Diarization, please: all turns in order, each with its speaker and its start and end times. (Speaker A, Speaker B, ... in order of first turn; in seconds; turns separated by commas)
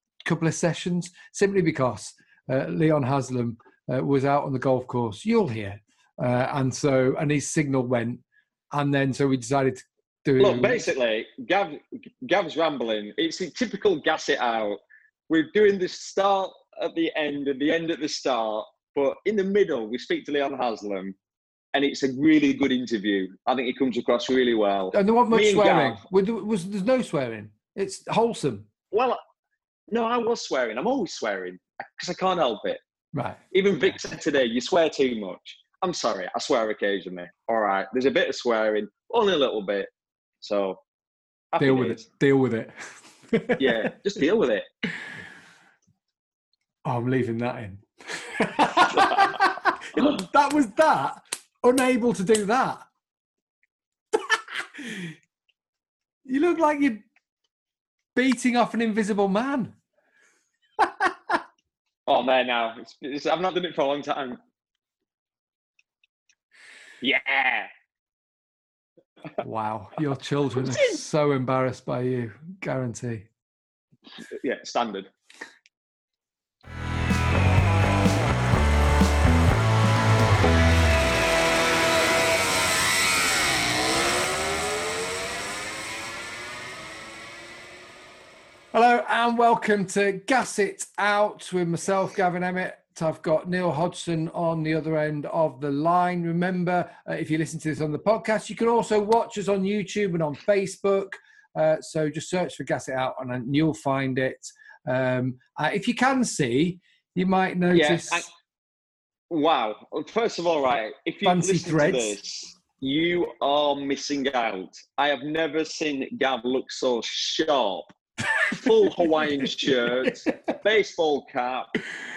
Speaker A: 0.2-8.2, Speaker A: 8.7-10.8, Speaker B: 10.4-21.1, Speaker B: 21.7-26.0, Speaker A: 24.9-28.7, Speaker B: 28.9-29.2, Speaker B: 29.9-32.8, Speaker A: 33.1-34.0, Speaker B: 33.5-39.9, Speaker B: 40.4-40.8, Speaker B: 41.5-42.0, Speaker A: 41.6-43.9, Speaker B: 43.6-44.7, Speaker A: 46.8-52.9, Speaker B: 48.9-49.4, Speaker A: 54.1-55.1, Speaker A: 56.2-57.0, Speaker A: 58.1-59.7, Speaker A: 60.8-61.4, Speaker B: 62.1-64.4, Speaker B: 67.0-67.7, Speaker A: 69.4-73.3, Speaker B: 74.4-75.1, Speaker A: 88.7-108.3, Speaker B: 107.7-108.3, Speaker B: 109.3-117.9, Speaker A: 111.2-112.2, Speaker B: 118.5-121.7, Speaker A: 119.7-120.5